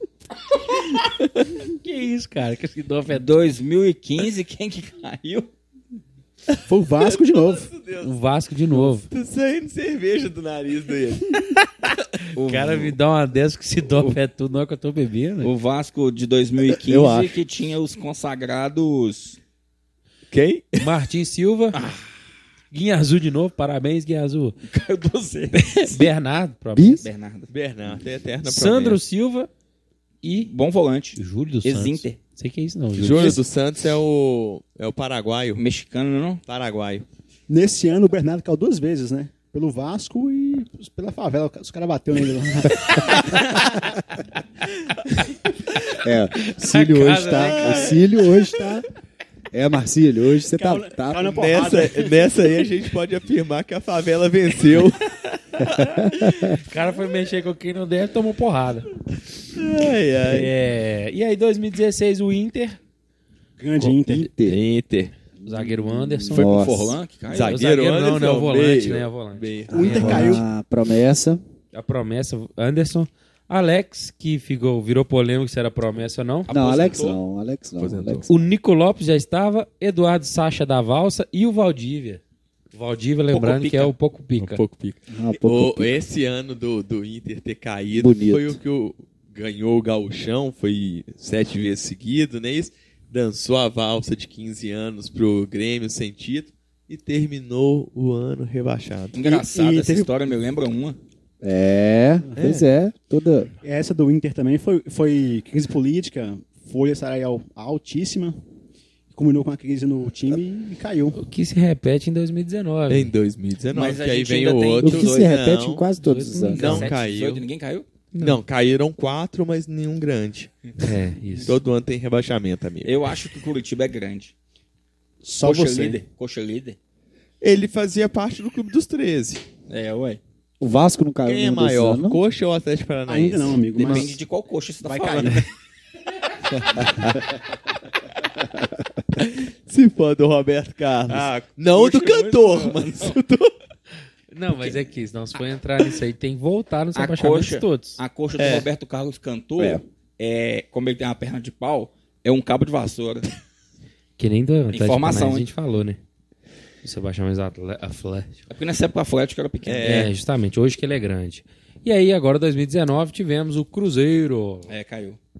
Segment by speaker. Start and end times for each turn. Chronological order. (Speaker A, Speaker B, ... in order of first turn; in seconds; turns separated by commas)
Speaker A: 1.8-3.3, Speaker B: 3.1-5.5, Speaker C: 6.5-8.1, Speaker D: 6.7-7.7, Speaker A: 8.0-9.1, Speaker C: 8.7-11.5, Speaker B: 12.3-12.9, Speaker A: 12.4-15.5, Speaker B: 15.4-19.4, Speaker C: 16.7-17.4, Speaker C: 20.3-20.9, Speaker A: 20.8-21.8, Speaker B: 21.7-22.1, Speaker A: 22.7-24.6, Speaker B: 24.7-26.1, Speaker A: 25.8-27.1, Speaker E: 26.8-27.0, Speaker B: 27.0-27.5, Speaker C: 27.5-29.0, Speaker A: 28.4-29.5, Speaker A: 30.2-30.5, Speaker B: 30.4-32.2, Speaker A: 31.2-33.4, Speaker C: 33.0-35.6, Speaker B: 35.6-36.4, Speaker C: 36.5-37.0, Speaker D: 37.5-43.3, Speaker A: 45.8-48.0, Speaker E: 45.9-48.9, Speaker C: 47.4-48.0, Speaker E: 49.5-51.4, Speaker D: 50.6-52.3, Speaker C: 51.3-55.0, Speaker C: 55.6-56.1, Speaker E: 55.6-56.6, Speaker A: 56.2-58.9, Speaker C: 59.5-60.5, Speaker A: 60.3-62.8, Speaker D: 63.6-64.3, Speaker E: 63.8-64.6, Speaker C: 64.4-65.1, Speaker E: 65.4-67.0, Speaker A: 65.5-66.5, Speaker B: 66.3-67.6, Speaker C: 66.4-66.7, Speaker C: 67.3-70.4, Speaker A: 67.5-70.4, Speaker D: 69.7-70.5, Speaker E: 69.7-71.4, Speaker A: 71.7-76.5, Speaker B: 76.5-77.2, Speaker E: 76.5-78.5, Speaker C: 77.8-78.3, Speaker A: 78.3-82.2, Speaker A: 82.7-84.6, Speaker B: 83.3-83.9, Speaker C: 84.4-99.2, Speaker E: 85.1-86.0, Speaker E: 88.0-88.6, Speaker B: 99.1-101.0, Speaker D: 99.2-100.1, Speaker E: 101.4-103.5, Speaker C: 102.4-102.7, Speaker D: 103.6-108.4, Speaker D: 109.1-111.2, Speaker A: 111.1-113.1, Speaker C: 112.9-115.8, Speaker B: 113.7-115.3, Speaker E: 114.8-116.9, Speaker A: 116.0-117.0, Speaker C: 116.5-117.5, Speaker B: 116.5-117.9, Speaker C: 118.1-120.5, Speaker A: 120.8-121.6, Speaker C: 121.4-123.0, Speaker B: 122.8-124.3, Speaker D: 125.2-126.0, Speaker B: 125.4-126.8, Speaker C: 127.4-129.4, Speaker B: 129.7-130.2, Speaker E: 130.6-132.2, Speaker C: 131.2-134.1, Speaker D: 133.1-134.2, Speaker B: 133.8-135.5, Speaker D: 134.8-135.4, Speaker C: 139.2-143.5, Speaker B: 141.1-143.2, Speaker A: 144.3-148.0, Speaker B: 147.0-153.3, Speaker C: 148.4-148.7, Speaker A: 154.2-156.0, Speaker B: 154.7-155.5, Speaker A: 156.8-158.4, Speaker B: 158.5-160.1, Speaker C: 159.7-160.1, Speaker A: 159.8-164.7, Speaker B: 164.7-165.2